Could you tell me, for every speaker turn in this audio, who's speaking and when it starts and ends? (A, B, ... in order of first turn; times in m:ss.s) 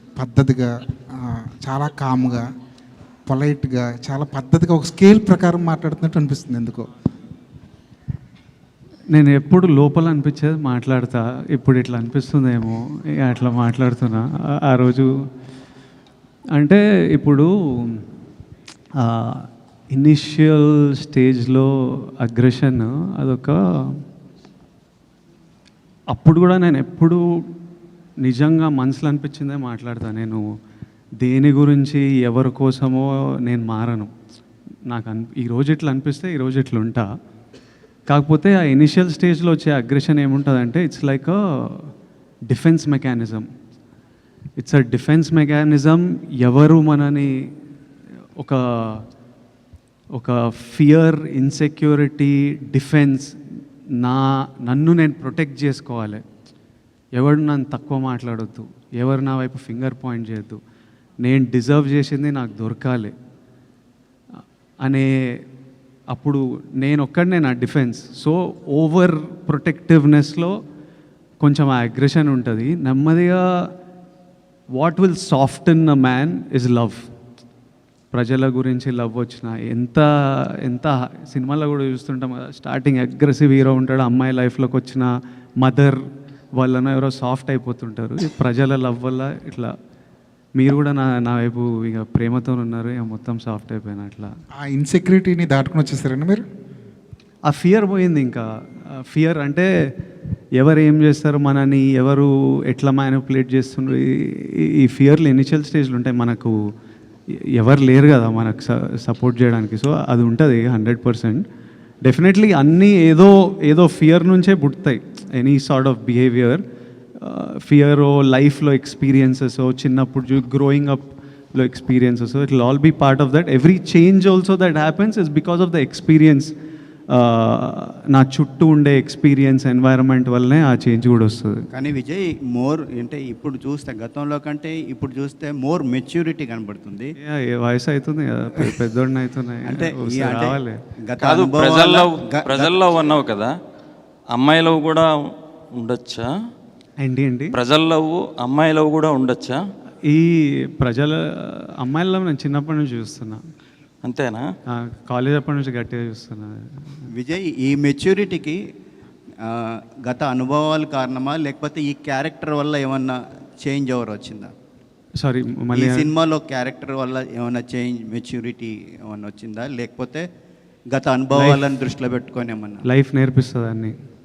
0:00.2-0:02.4 A
0:03.3-0:06.9 A
0:09.1-0:15.1 B
0:16.6-0:18.0 B
0:19.0-0:24.0 B
0:26.1-0:27.2 B
0:28.2-0:30.5 B
0:31.2-0:34.1 B
0:34.9-0:37.1 B
0:38.1-0:41.9 B
0:42.5-0:43.5 B
0:44.6-0:47.3 B
0:48.4-0:49.0 B
0:50.1-0:53.4 B
0:54.0-0:56.2 B
0:57.2-1:00.6 B
1:01.2-1:03.1 B
1:04.8-1:05.4 B
1:06.1-1:10.5 B
1:11.4-1:13.7 B
1:14.7-1:17.1 B
1:18.1-1:25.1 B
1:25.6-1:26.0 B
1:26.6-1:29.7 B
1:30.6-1:34.3 B
1:34.6-1:36.4 A
1:37.4-1:39.7 B
1:40.6-1:46.6 B
1:47.3-1:51.4 B
1:52.0-1:56.6 B
1:57.2-2:06.5 B
2:07.1-2:11.6 B
2:11.7-2:17.1 C
2:17.2-2:20.8 B
2:19.7-2:22.8 C
2:21.2-2:23.5 D
2:24.3-2:25.1 D
2:25.8-2:26.3 D
2:27.0-2:27.5 B
2:27.5-2:29.6 D
2:30.0-2:33.4 B
2:34.0-2:34.4 D
2:34.7-2:37.0 B
2:37.2-2:38.6 C
2:40.0-2:44.5 C
2:45.2-2:46.1 B
2:45.8-2:50.2 C
2:50.9-2:52.8 C
2:51.3-2:51.6 B
2:52.8-2:53.9 B